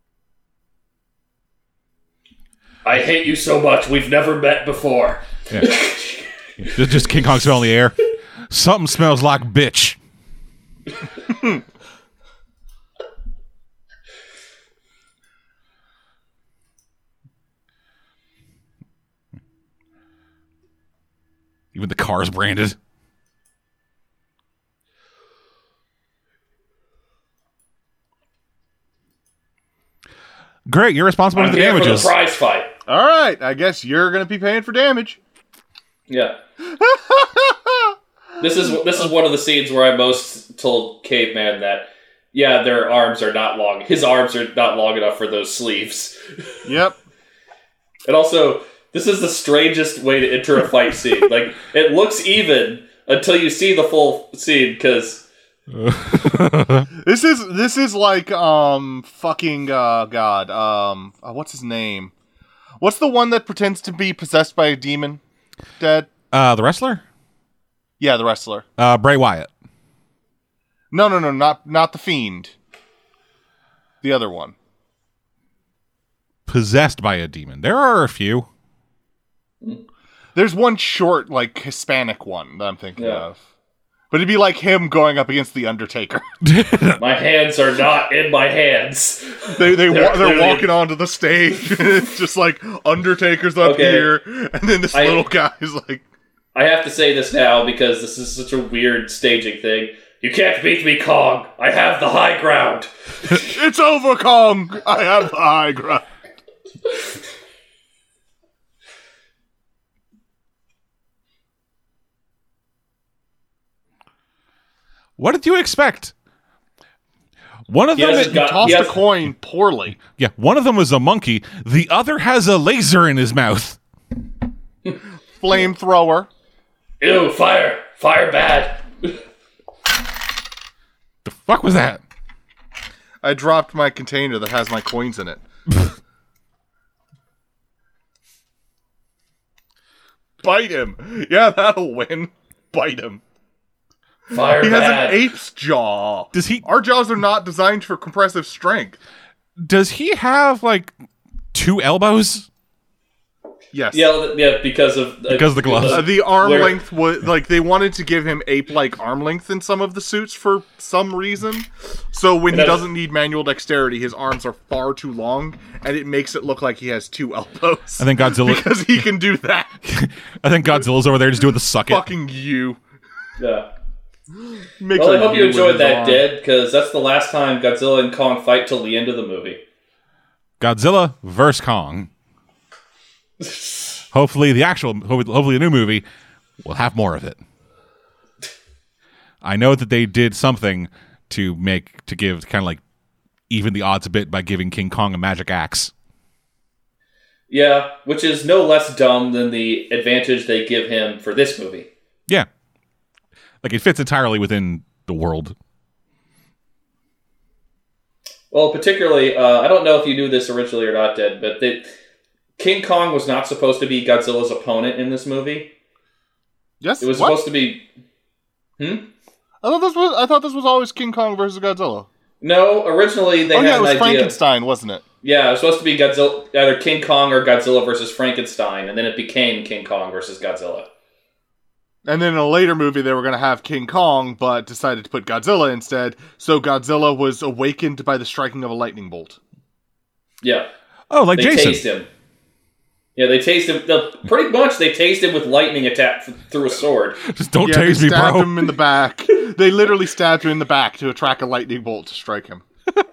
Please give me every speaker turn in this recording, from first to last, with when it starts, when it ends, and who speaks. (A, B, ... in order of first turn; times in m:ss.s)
0:02.8-0:07.2 A
0:06.6-0:08.0 B
0:08.5-0:10.0 B
0:21.7-0:22.8 B
0:30.7-0:32.1 B
0:31.4-0:32.7 A
0:32.9-0:35.2 C
0:36.1-0:36.4 A
0:36.6-0:38.0 C
0:38.4-0:46.6 A
0:46.6-0:47.0 C
0:48.0-0:55.2 A
0:55.7-0:56.9 B
0:57.0-1:02.1 C
1:02.8-1:05.2 C
1:05.8-1:06.1 C
1:06.3-1:07.0 B
1:08.0-1:08.6 C
1:08.8-1:09.5 B
1:10.9-1:12.5 C
1:14.0-1:14.6 C
1:16.5-1:18.5 B
1:20.4-1:23.4 C
1:23.0-1:23.2 A
1:24.1-1:26.2 C
1:26.4-1:27.0 B
1:27.0-1:30.8 A
1:29.5-1:36.0 C
1:33.6-1:34.2 A
1:34.9-1:35.3 A
1:36.6-1:43.5 A
1:43.3-1:46.1 C
1:55.2-1:56.1 B
1:57.7-1:58.9 B
1:58.0-1:59.1 A
1:58.0-2:00.0 C
2:00.0-2:03.8 B
2:05.4-2:06.3 C
2:07.0-2:09.2 A
2:11.2-2:12.0 B
2:13.2-2:15.4 C
2:20.4-2:23.2 C
2:24.3-2:25.2 A
2:24.5-2:29.0 C
2:26.3-2:26.7 B
2:29.6-2:30.9 B
2:31.5-2:32.5 B
2:33.7-2:34.1 C
2:33.9-2:36.8 A
2:35.3-2:36.1 B
2:35.8-2:49.8 C
2:42.5-2:42.8 A
2:48.0-2:48.8 B
2:49.8-2:52.1 B
2:51.9-2:52.8 C
2:53.4-2:53.7 A
2:54.8-2:56.3 C
2:55.0-2:59.6 A
3:00.6-3:02.1 B
3:03.4-3:03.7 A
3:04.1-3:06.0 B
3:06.6-3:07.4 B
3:09.4-3:12.8 B
3:13.5-3:15.9 B
3:17.5-3:21.9 A
3:23.6-3:25.6 B
3:28.5-3:31.9 A
3:32.6-3:35.7 A
3:36.8-3:37.4 C
3:37.0-3:37.9 A
3:38.8-3:39.1 A
3:39.6-3:42.1 C
3:42.4-3:44.4 A
3:43.5-3:45.0 C
3:45.2-3:50.9 A
3:52.0-3:59.4 C
4:00.4-4:00.7 A
4:01.1-4:01.8 B
4:01.3-4:02.1 A
4:03.2-4:07.2 A
4:07.3-4:08.6 B
4:07.6-4:12.6 C